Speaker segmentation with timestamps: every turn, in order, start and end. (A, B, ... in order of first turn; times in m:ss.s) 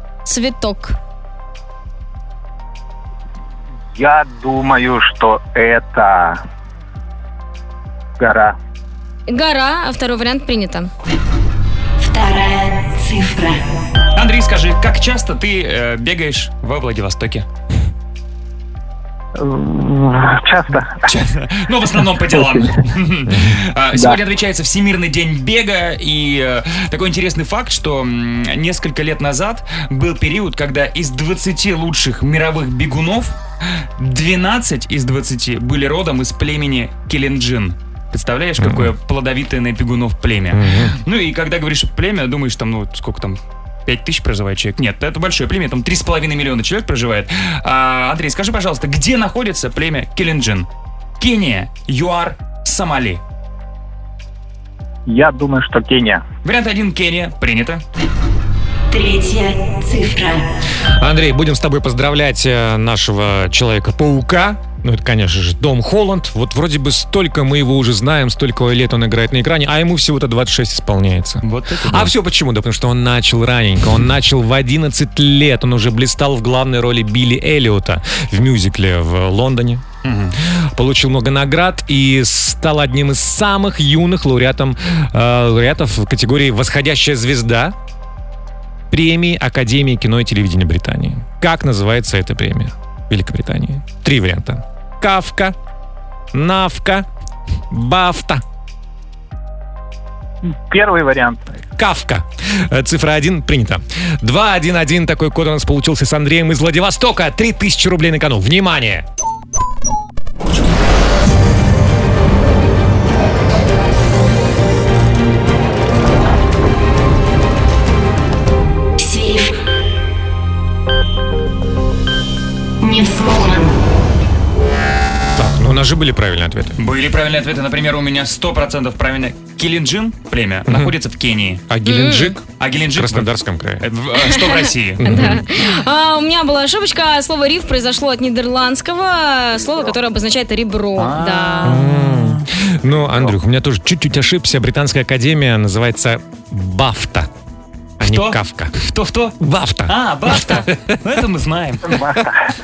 0:00.2-0:01.0 A
0:04.0-0:06.4 B
0:08.2-0:08.6 B
0:09.3-0:10.9 A
0:12.0-0:13.6 C
0:14.2-0:17.5 D
0:19.4-0:21.0 B
0:21.0-0:33.4 D
0:34.0-0:50.7 D
0:38.6-0:38.9 E
0:40.5-0:41.0 E
0:51.2-0:53.2 D
0:55.1-0:56.2 B
0:56.4-0:57.8 D
0:58.9-1:00.5 C
1:01.0-1:19.8 E
1:11.4-1:12.1 D
1:20.0-1:20.4 D
1:20.8-1:27.8 E
1:28.9-1:35.6 E
1:36.3-1:37.1 E
1:37.7-1:38.4 E
1:40.5-1:41.5 B
1:41.8-1:49.1 E
1:59.0-1:59.5 C
2:02.8-2:03.7 C
2:05.4-2:06.8 E
2:06.8-2:11.6 D
2:10.7-2:10.9 E
2:11.7-2:12.4 E
2:11.8-2:12.4 A
2:12.6-2:15.4 D
2:13.0-2:13.9 E
2:14.3-2:21.8 A
2:15.0-2:15.4 E
2:21.0-2:22.4 D
2:21.6-2:27.3 E
2:28.0-2:28.7 E
2:28.0-2:29.4 D
2:29.4-2:31.0 E
2:29.9-2:32.0 D
2:31.9-2:32.4 B